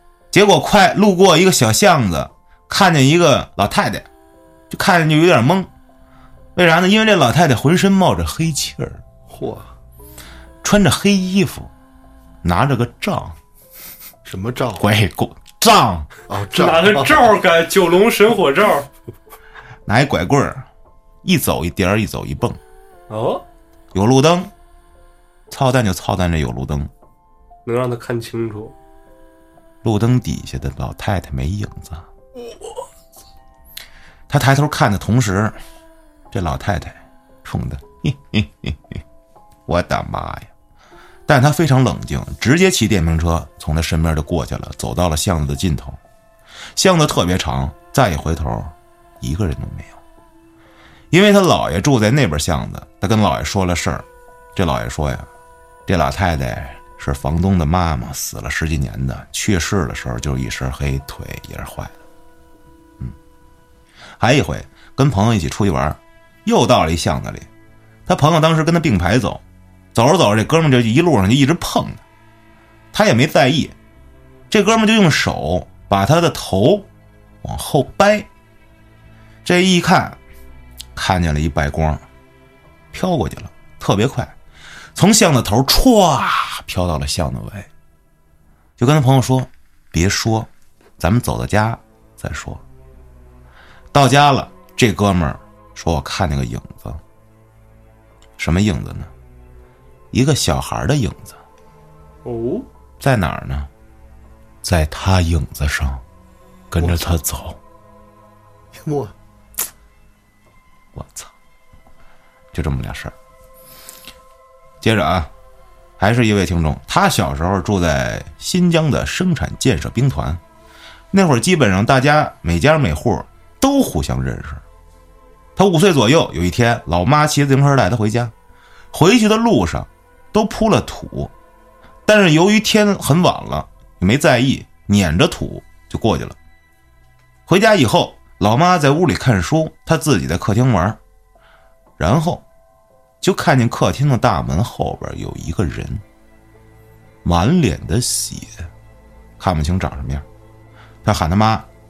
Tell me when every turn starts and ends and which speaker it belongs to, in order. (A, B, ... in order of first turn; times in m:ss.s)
0:00.3-0:04.1 A
0:04.7-0:05.7 A
0:06.5-0:09.0 A
0:09.3-0:09.7 B
0:10.6-0:11.7 A
0:12.4-0:13.4 A
0:14.2-0:14.8 B
0:14.8-0:16.1 A
0:16.3-0:17.3 B
0:16.5-0:18.9 C
0:19.9-0:20.6 A
0:21.2-0:22.6 A
0:23.1-0:23.4 C
0:23.9-0:24.5 A
0:25.5-0:26.9 A
0:27.6-0:28.7 C
0:29.8-0:32.1 A
0:34.3-0:35.6 A
0:36.3-0:39.0 A
0:39.7-0:40.5 A
0:41.3-0:46.0 A
0:46.8-0:50.0 A
0:51.1-0:55.3 A
0:55.9-1:02.0 A
1:04.2-1:07.5 A
1:08.1-1:09.4 A
1:09.9-1:12.0 A
1:12.9-1:13.7 A
1:14.5-1:16.9 A
1:17.4-1:18.3 A
1:19.4-1:20.2 A
1:20.9-1:22.0 A
1:22.9-1:24.3 A
1:24.9-1:27.7 A
1:28.8-1:32.6 A
1:33.9-1:37.0 A
1:38.4-1:39.1 A
1:40.1-1:41.4 A
1:42.2-1:42.7 C
1:43.0-1:43.7 A
1:44.6-1:46.0 A
1:46.7-1:47.6 A
1:48.7-1:49.1 B
1:50.9-1:51.3 A
1:52.5-1:53.1 A
1:54.8-1:55.3 A
1:56.0-2:00.4 A
2:01.1-2:04.6 A
2:05.6-2:08.3 A
2:08.9-2:11.3 A
2:12.0-2:16.4 A
2:17.5-2:21.0 A
2:22.0-2:22.4 A
2:23.2-2:26.0 A
2:27.2-2:28.7 A
2:29.4-2:30.2 A
2:31.0-2:31.7 A